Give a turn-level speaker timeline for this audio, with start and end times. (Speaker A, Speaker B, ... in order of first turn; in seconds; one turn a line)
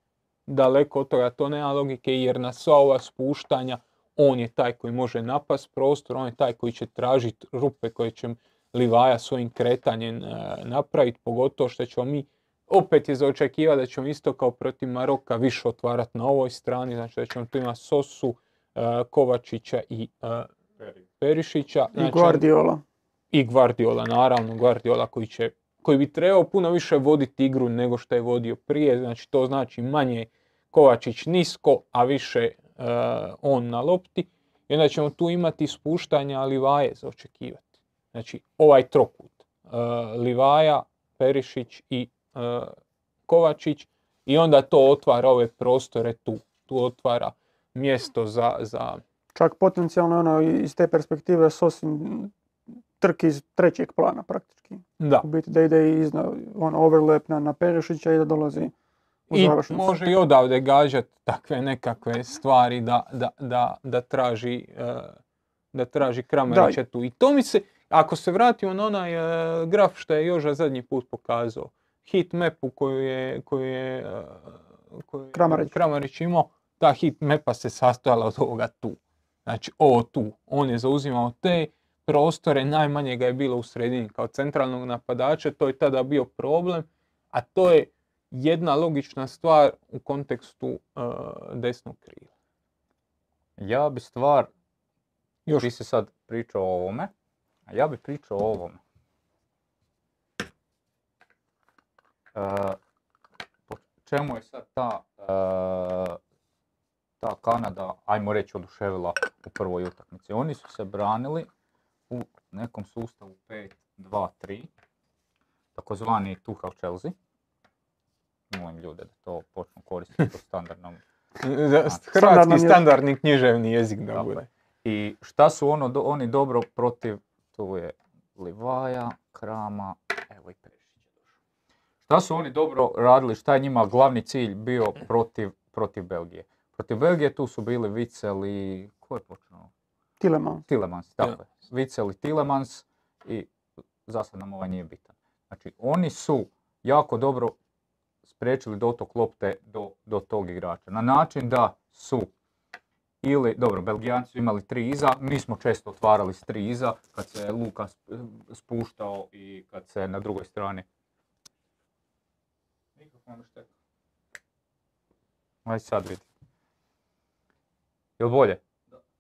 Speaker A: 0.5-20.5
Speaker A: 21.2-22.4
Speaker B: 21.9-22.8
Speaker A: 23.3-42.8
Speaker A: 43.3-49.0
Speaker B: 49.4-52.3
Speaker B: 53.0-58.7
Speaker A: 55.0-55.2
Speaker B: 59.3-59.9
Speaker A: 59.3-65.2
Speaker A: 65.7-92.3
Speaker B: 66.5-66.8
Speaker B: 75.3-75.7
Speaker C: 93.6-94.5
Speaker C: 95.6-97.1
Speaker C: 97.7-98.8
Speaker C: 102.3-102.8
Speaker C: 103.7-106.2
Speaker C: 107.2-111.5
Speaker C: 112.1-114.7
Speaker C: 115.8-117.2
Speaker C: 118.5-121.0
Speaker A: 121.4-124.5
Speaker B: 122.2-122.8
Speaker C: 124.8-131.1
Speaker C: 132.1-139.7
Speaker B: 140.2-140.7
Speaker C: 140.7-143.5
Speaker C: 144.1-147.6
Speaker C: 148.3-152.3
Speaker C: 153.2-160.8
Speaker C: 163.0-163.7
Speaker C: 165.7-166.3
Speaker C: 168.2-168.6